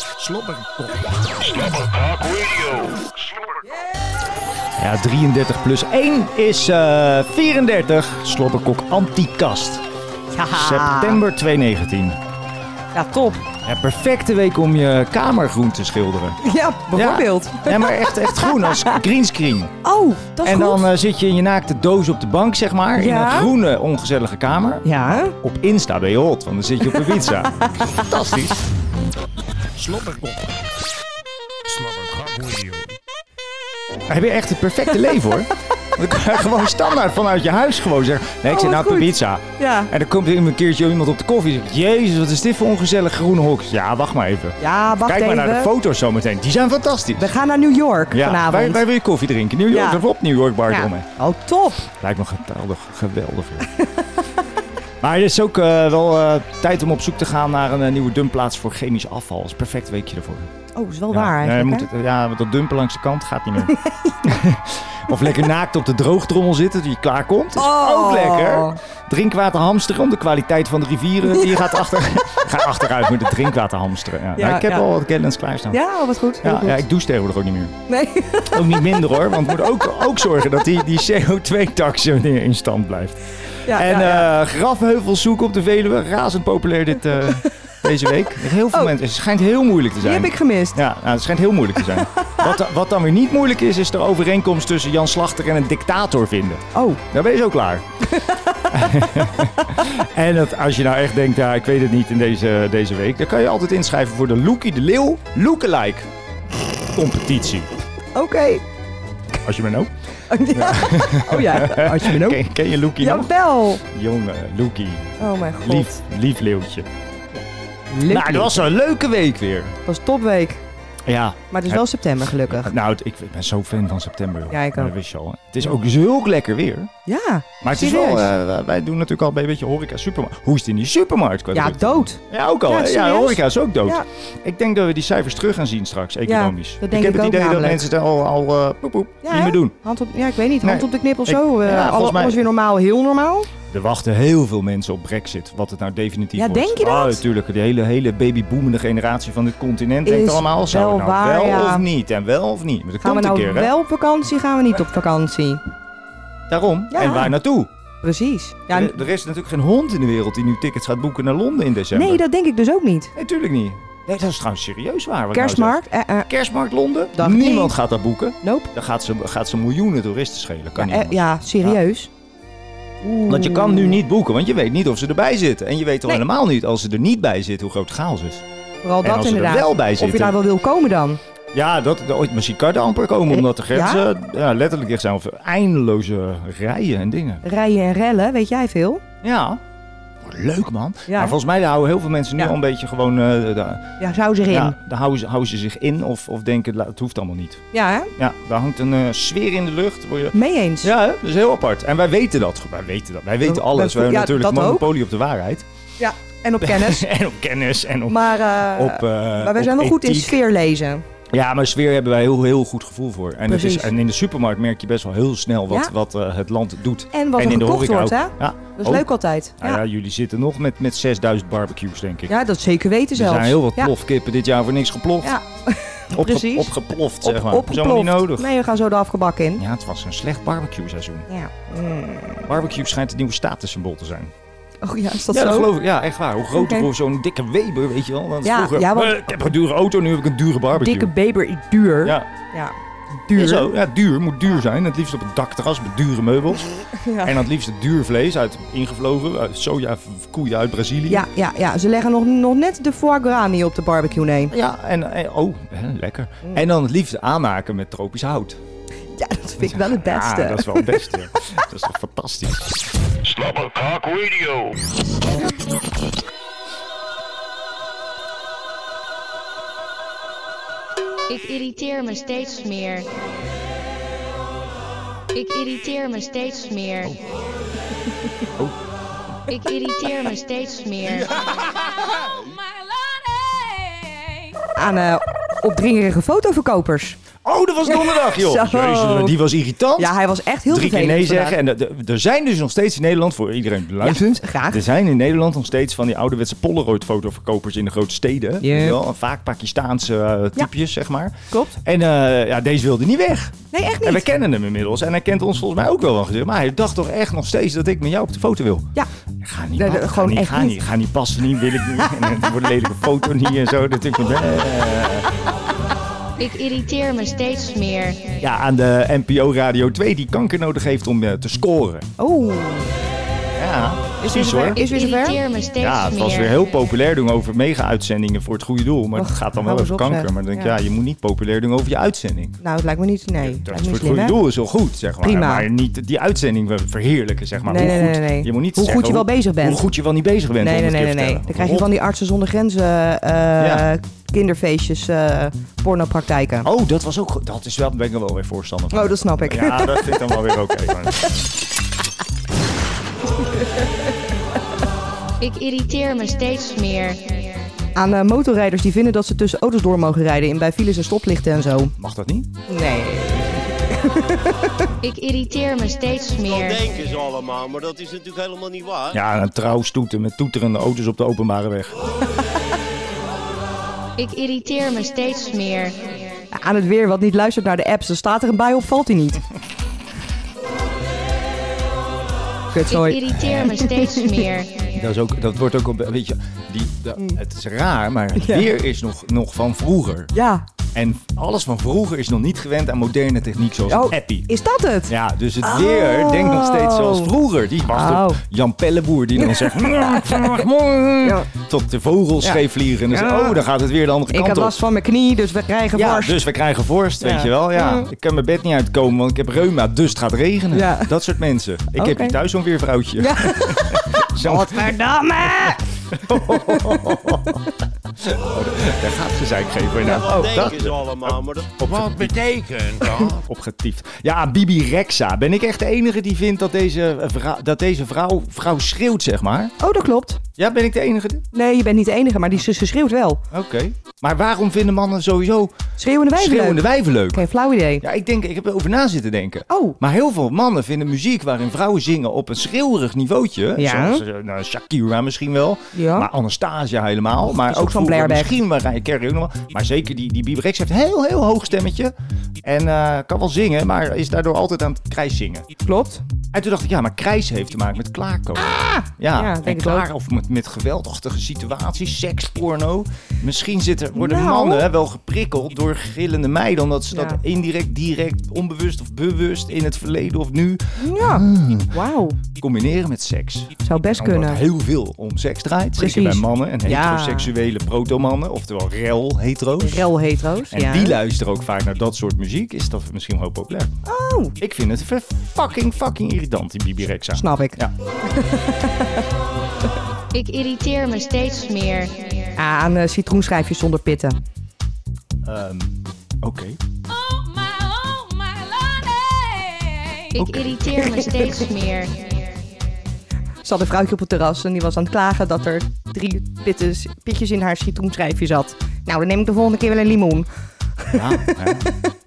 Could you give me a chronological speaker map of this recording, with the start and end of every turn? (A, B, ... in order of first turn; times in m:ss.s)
0:00.2-0:01.5 A
0:01.4-0:03.4 B
0:04.8-0:09.8 C
0:10.3-0:11.2 D
0:10.5-0:12.2 C
0:12.9-0:13.4 D
0:13.6-0:16.4 C
0:16.4-0:19.0 D
0:16.9-0:19.7 C
0:19.8-0:20.8 D
0:20.4-0:28.6 C
0:22.9-0:23.5 D
0:24.8-0:25.4 D
0:27.0-0:28.0 D
0:29.8-0:30.6 A
0:31.7-0:33.0 A
0:34.1-0:47.3 C
0:38.5-0:39.9 D
0:44.6-0:45.7 D
0:47.2-0:48.8 D
0:48.1-0:51.1 C
0:49.7-0:50.0 D
0:50.7-0:51.8 D
0:51.9-0:53.7 C
0:55.0-1:00.5 C
1:00.7-1:01.9 D
1:01.1-1:15.8 C
1:03.7-1:04.3 D
1:07.6-1:08.8 D
1:11.3-1:11.6 D
1:14.4-1:14.8 D
1:15.7-1:16.8 D
1:16.4-1:17.7 C
1:17.9-1:18.6 D
1:18.4-1:37.8 C
1:23.7-1:24.3 D
1:28.7-1:28.9 D
1:30.0-1:30.8 D
1:31.9-1:32.5 D
1:36.7-1:37.0 D
1:38.0-1:39.0 D
1:38.7-1:46.1 C
1:46.9-1:47.7 C
1:48.1-1:48.6 D
1:49.4-1:56.9 C
1:50.3-1:52.4 D
1:53.0-1:53.8 D
1:55.2-1:56.0 D
1:57.3-1:58.6 D
1:58.1-1:59.8 C
1:59.8-2:00.6 D
2:01.0-2:01.8 C
2:01.5-2:02.7 D
2:02.5-2:06.9 C
2:04.5-2:04.9 D
2:07.0-2:08.3 D
2:07.6-2:19.7 C
2:11.5-2:14.0 D
2:16.2-2:17.9 D
2:19.2-2:23.5 D
2:20.6-2:22.4 C
2:23.7-2:33.7 C
2:26.4-2:27.2 D
2:30.0-2:31.8 D
2:33.0-2:35.6 D
2:36.5-2:37.7 C
2:36.9-2:37.3 D
2:38.0-2:39.0 D
2:38.7-2:42.2 C
2:41.9-2:43.1 D
2:43.1-2:51.8 C
2:45.3-2:46.3 D
2:47.1-2:47.7 D
2:48.4-2:48.7 D
2:50.8-2:52.1 D
2:53.0-2:54.0 D
2:53.3-2:58.4 C
2:58.8-3:01.2 D
2:59.0-3:00.4 C
3:01.5-3:07.4 C
3:03.3-3:04.0 D
3:07.4-3:09.0 D
3:09.2-3:09.6 C
3:10.2-3:13.9 C
3:11.1-3:11.4 D
3:14.0-3:14.8 D
3:14.5-3:17.6 C
3:17.7-3:18.1 D
3:18.2-3:25.7 C
3:20.3-3:20.9 D
3:23.4-3:24.9 D
3:26.0-3:27.0 D
3:26.6-3:28.2 C
3:28.1-3:31.0 D
3:28.7-3:30.4 C
3:31.3-3:39.1 C
3:33.5-3:33.9 D
3:37.1-3:39.8 D
3:39.6-3:42.3 C
3:42.3-3:43.9 D
3:43.1-3:45.3 C
3:45.2-3:49.6 D
3:46.1-3:48.5 C
3:49.6-3:51.3 C
3:51.3-3:52.5 D
3:52.4-3:54.3 C
3:54.8-3:55.7 D
3:55.3-4:01.1 C
3:56.5-3:56.9 D
3:58.4-3:59.3 D
4:00.7-4:03.7 D
4:03.3-4:06.7 C
4:07.0-4:07.4 D
4:07.2-4:11.2 C
4:11.1-4:14.5 D
4:14.5-4:18.6 C
4:19.2-4:21.0 D
4:19.6-4:22.8 C
4:23.2-4:24.8 B
4:31.3-4:33.1 E
4:35.3-4:37.2 E
4:39.5-4:41.3 E
4:44.8-4:47.2 D
4:47.4-5:15.3 C
4:47.8-4:49.4 D
4:50.0-4:51.6 D
4:54.0-4:54.8 D
4:58.6-4:59.0 D
5:01.5-5:01.8 D
5:03.7-5:04.2 D
5:09.8-5:10.8 D
5:12.0-5:12.2 D
5:16.4-5:18.4 E
5:18.4-5:22.1 C
5:22.2-5:22.9 D
5:23.6-5:24.8 C
5:24.2-5:25.4 D
5:24.6-5:26.6 E
5:25.8-5:32.6 C
5:29.1-5:30.7 D
5:32.6-5:34.4 D
5:33.4-5:41.9 C
5:35.2-5:35.7 D
5:37.7-5:39.8 D
5:40.6-5:46.7 D
5:43.6-5:43.9 C
5:46.6-5:51.5 C
5:48.9-5:50.5 D
5:55.4-5:57.6 E
5:58.0-6:01.9 D
6:02.0-6:02.6 C
6:02.7-6:04.9 D
6:05.0-6:06.8 E
6:06.5-6:09.2 F
6:09.1-6:11.9 C
6:14.2-6:16.0 E
6:16.5-6:19.4 D
6:22.7-6:23.2 D
6:22.9-6:25.0 E
6:23.3-6:23.7 C
6:23.8-6:24.3 D
6:24.9-6:30.3 C
6:28.4-6:28.7 D
6:30.3-6:30.6 D
6:30.9-6:34.5 C
6:33.9-6:37.3 D
6:35.1-6:44.8 C
6:37.8-6:38.4 D
6:39.4-6:40.6 D
6:41.2-6:41.5 D
6:42.4-6:43.6 D
6:44.3-6:46.4 D
6:45.9-6:55.0 C
6:47.2-6:48.1 D
6:50.7-6:51.1 D
6:52.0-6:52.4 D
6:53.2-6:57.6 D
6:55.7-6:57.6 C
6:58.2-7:02.4 C
7:00.0-7:01.7 F
7:01.8-7:03.4 A
7:03.0-7:09.7 C
7:09.8-7:10.4 D
7:10.6-7:11.4 C
7:11.5-7:13.4 D
7:13.5-7:15.8 C
7:16.0-7:18.0 D
7:16.3-7:17.4 C
7:18.0-7:35.7 C
7:19.7-7:20.0 D
7:23.8-7:24.2 D
7:25.9-7:26.3 D
7:27.5-7:28.5 D
7:35.8-7:36.2 D
7:36.5-8:00.1 C
7:38.6-7:40.0 D
7:44.1-7:44.9 D
7:47.1-7:47.4 D
7:51.0-7:52.4 D
7:53.8-7:54.6 D
7:56.0-7:57.5 D
7:59.8-8:01.2 D
8:00.7-8:04.0 C
8:04.0-8:04.5 D
8:04.6-8:07.9 C
8:07.3-8:09.2 D
8:10.3-8:12.5 E
8:12.6-8:14.4 D
8:15.4-8:16.8 C
8:20.3-8:22.6 E
8:20.4-8:20.9 C
8:23.6-8:30.5 D
8:31.0-8:31.6 D
8:31.1-8:31.9 C